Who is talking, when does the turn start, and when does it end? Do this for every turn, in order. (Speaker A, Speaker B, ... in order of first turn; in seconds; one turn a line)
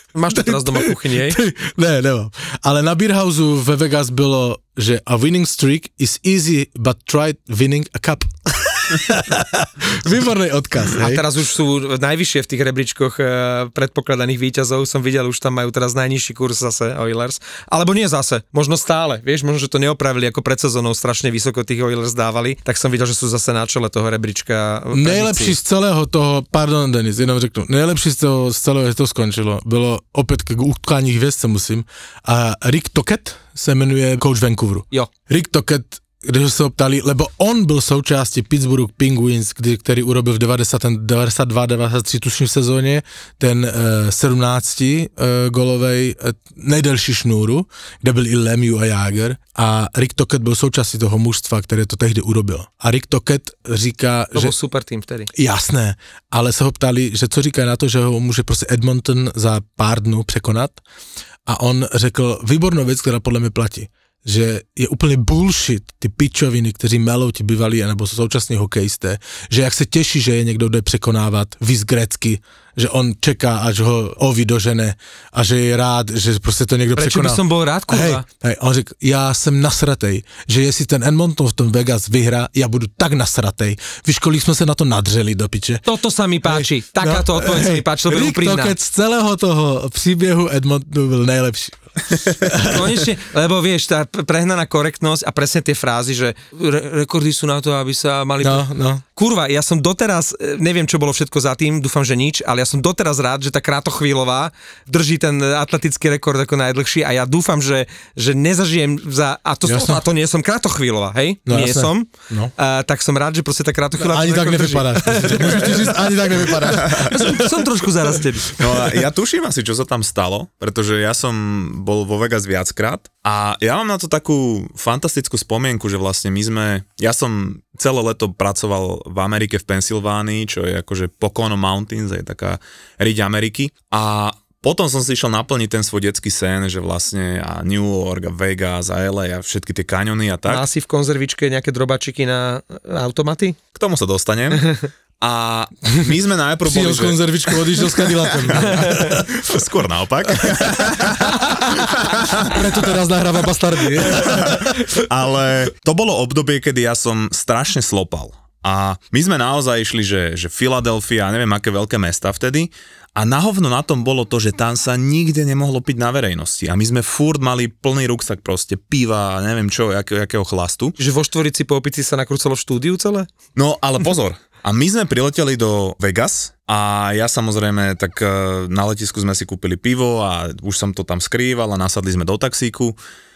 Speaker A: 0.1-1.4
Speaker B: 0.3-11.2
Speaker A: 11.0-25.6
Speaker B: 24.9-54.5
Speaker A: 54.3-55.3
Speaker B: 55.3-60.8
Speaker B: 61.5-85.8
Speaker A: 77.0-78.2
Speaker A: 85.8-88.7
Speaker B: 86.4-93.0
Speaker A: 92.6-118.6
Speaker B: 98.4-99.0
Speaker B: 109.7-110.0
Speaker B: 111.5-112.5
Speaker B: 114.0-118.9
Speaker C: 116.7-117.1
Speaker C: 118.6-140.6
Speaker A: 140.5-143.6
Speaker C: 143.7-144.7
Speaker A: 144.5-144.9
Speaker C: 145.2-147.9
Speaker B: 146.7-149.2
Speaker C: 148.5-152.6
Speaker A: 148.6-149.2
Speaker B: 151.2-151.8
Speaker B: 152.4-154.8
Speaker C: 154.2-170.9
Speaker A: 171.0-173.3
Speaker C: 173.6-183.0